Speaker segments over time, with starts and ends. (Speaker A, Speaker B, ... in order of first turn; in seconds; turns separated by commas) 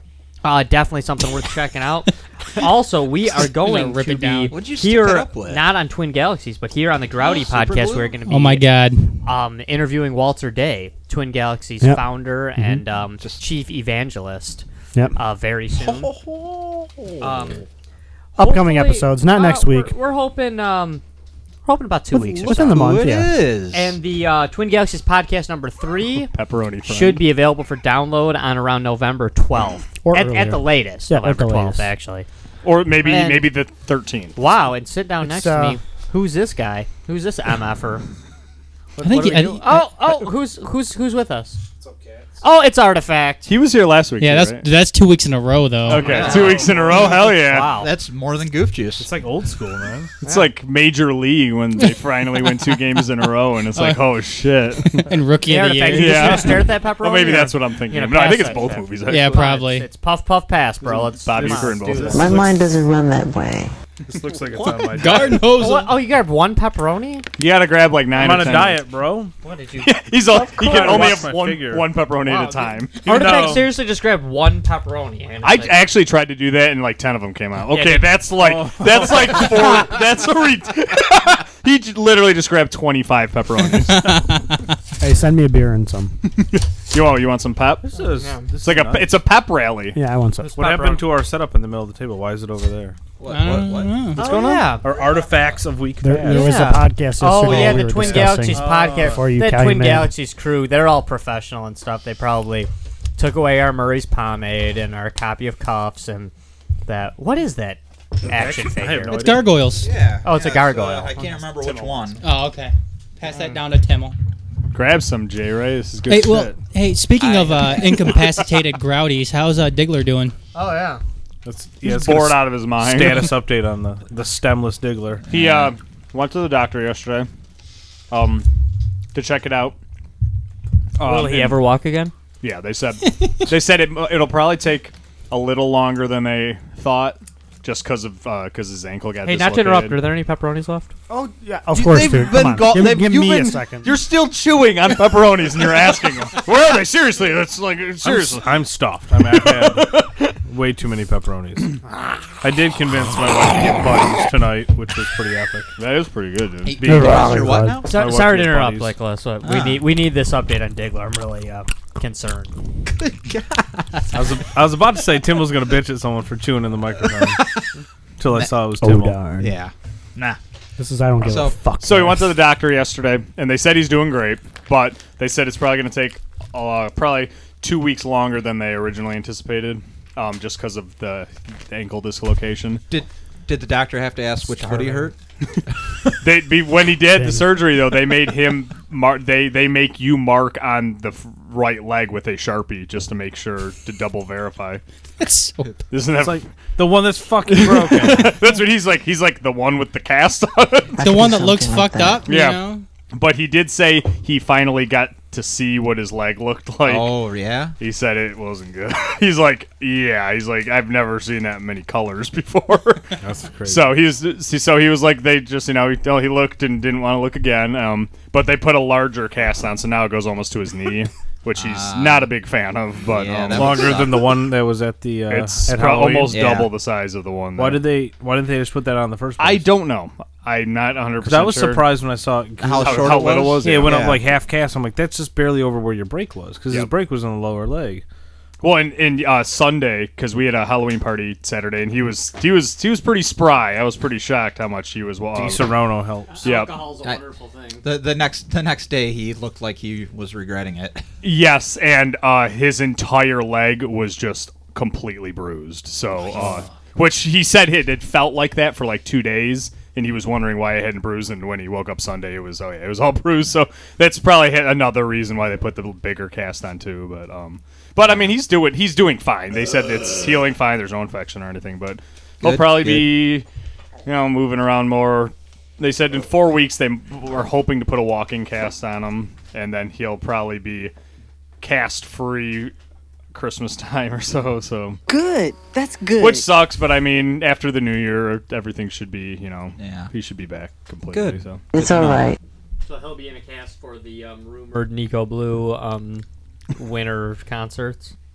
Speaker A: 0.4-8.7, Speaker B: 3.4-4.5, Speaker C: 4.5-5.7, Speaker C: 7.2-8.2, Speaker B: 8.3-9.2, Speaker A: 9.2-16.1, Speaker D: 11.8-12.8, Speaker C: 15.8-17.6, Speaker A: 17.2-17.6, Speaker A: 18.4-21.0, Speaker D: 18.4-19.9, Speaker A: 21.6-22.9, Speaker D: 22.1-23.3, Speaker C: 22.5-24.0, Speaker A: 23.7-26.3, Speaker E: 26.2-27.2, Speaker A: 26.8-32.3, Speaker D: 30.0-31.9, Speaker E: 32.6-34.4, Speaker A: 33.0-33.5, Speaker A: 34.4-38.0, Speaker D: 35.2-35.8, Speaker F: 39.0-39.5, Speaker B: 39.0-39.8, Speaker A: 39.0-41.6, Speaker F: 41.8-42.4, Speaker A: 42.4-43.5, Speaker E: 43.4-44.7, Speaker B: 44.2-46.2, Speaker E: 45.8-47.7, Speaker C: 45.9-49.1, Speaker A: 46.0-47.9, Speaker F: 46.1-47.2, Speaker F: 49.0-50.1, Speaker E: 50.2-55.1, Speaker A: 50.2-50.5, Speaker B: 53.7-54.2, Speaker B: 54.9-56.7, Speaker A: 55.5-62.4, Speaker E: 55.9-59.4, Speaker B: 59.1-59.9, Speaker F: 60.8-62.6, Speaker E: 61.2-62.4, Speaker G: 62.1-63.7, Speaker F: 64.0-65.5, Speaker B: 64.9-66.0, Speaker A: 65.0-67.2, Speaker E: 67.4-68.8, Speaker F: 68.1-69.3, Speaker A: 69.4-70.0, Speaker E: 69.8-73.2, Speaker G: 70.2-71.1, Speaker F: 70.5-72.5, Speaker A: 72.2-75.8, Speaker F: 73.0-73.7, Speaker E: 75.4-84.2, Speaker A: 77.7-78.1, Speaker F: 78.3-79.9, Speaker B: 83.9-84.6, Speaker D: 85.0-86.2, Speaker E: 86.4-88.0, Speaker F: 87.8-89.2, Speaker A: 88.2-88.5, Speaker E: 88.6-90.0, Speaker D: 89.9-90.5, Speaker A: 90.4-91.0, Speaker F: 90.5-93.0, Speaker C: 93.2-94.2, Speaker B: 93.3-94.2, Speaker E: 94.2-94.7, Speaker A: 94.2-94.8, Speaker F: 94.3-96.6, Speaker D: 96.0-100.1, Speaker A: 96.2-106.3, Speaker F: 97.4-99.2, Speaker A: 106.8-109.3, Speaker F: 108.2-109.7, Speaker B: 109.1-109.9, Speaker C: 109.7-112.2, Speaker A: 110.2-111.3, Speaker E: 111.5-112.1, Speaker B: 112.2-114.2, Speaker A: 113.2-113.6, Speaker E: 114.7-116.5, Speaker B: 116.1-120.3, Speaker C: 117.2-118.2, Speaker A: 120.5-121.0, Speaker F: 121.4-125.3, Speaker E: 121.8-123.4, Speaker E: 125.3-127.3, Speaker C: 125.3-125.7, Speaker E: 128.1-128.5, Speaker E: 129.1-129.8, Speaker E: 131.0-131.6, Speaker A: 131.0-132.1, Speaker E: 132.4-140.0, Speaker A: 139.2-140.9, Speaker D: 141.1-143.9, Speaker C: 141.7-143.0, Speaker E: 141.8-148.6, Speaker F: 148.0-149.9, Speaker E: 149.2-150.4, Speaker F: 150.5-151.8, Speaker F: 152.4-155.7, Speaker E: 155.8-157.3, Speaker C: 156.6-158.0, Speaker D: 156.8-157.8, Speaker A: 157.8-162.6, Speaker F: 157.9-158.9, Speaker C: 159.4-159.8, Speaker C: 162.9-164.2, Speaker F: 164.1-167.4, Speaker C: 167.0-167.7, Speaker F: 168.2-169.2, Speaker C: 168.2-168.5, Speaker D: 168.8-169.6, Speaker C: 169.3-170.4, Speaker D: 170.8-172.3, Speaker C: 171.2-171.6, Speaker E: 171.8-182.8, Speaker C: 182.9-185.2, Speaker A: 184.6-185.0, Speaker C: 185.7-186.1, Speaker E: 186.2-194.8, Speaker D: 187.1-187.7, Speaker B: 195.2-195.6, Speaker E: 195.9-196.7, Speaker F: 196.1-198.4, Speaker E: 197.5-201.0, Speaker G: 200.9-202.3, Speaker B: 201.0-202.8, Speaker E: 202.2-202.6, Speaker E: 203.1-207.2, Speaker C: 206.8-207.8, Speaker E: 207.8-224.1, Speaker F: 213.2-214.0, Speaker C: 221.5-222.3, Speaker C: 223.0-224.5, Speaker F: 223.5-226.4, Speaker E: 225.3-227.8, Speaker C: 226.3-226.8, Speaker F: 227.6-229.8, Speaker E: 229.4-231.9, Speaker F: 231.2-238.0, Speaker C: 232.6-234.2, Speaker E: 232.8-234.1, Speaker E: 238.6-245.8, Speaker F: 245.3-246.4, Speaker A: 246.3-247.8, Speaker E: 246.4-246.8, Speaker C: 247.8-251.1, Speaker E: 251.2-273.4, Speaker C: 272.4-273.2, Speaker E: 274.1-280.9, Speaker E: 281.6-282.7, Speaker E: 283.3-285.0, Speaker G: 285.1-286.6, Speaker E: 286.1-291.6, Speaker C: 289.8-290.1, Speaker C: 291.1-292.3, Speaker G: 291.7-292.4, Speaker A: 292.8-298.1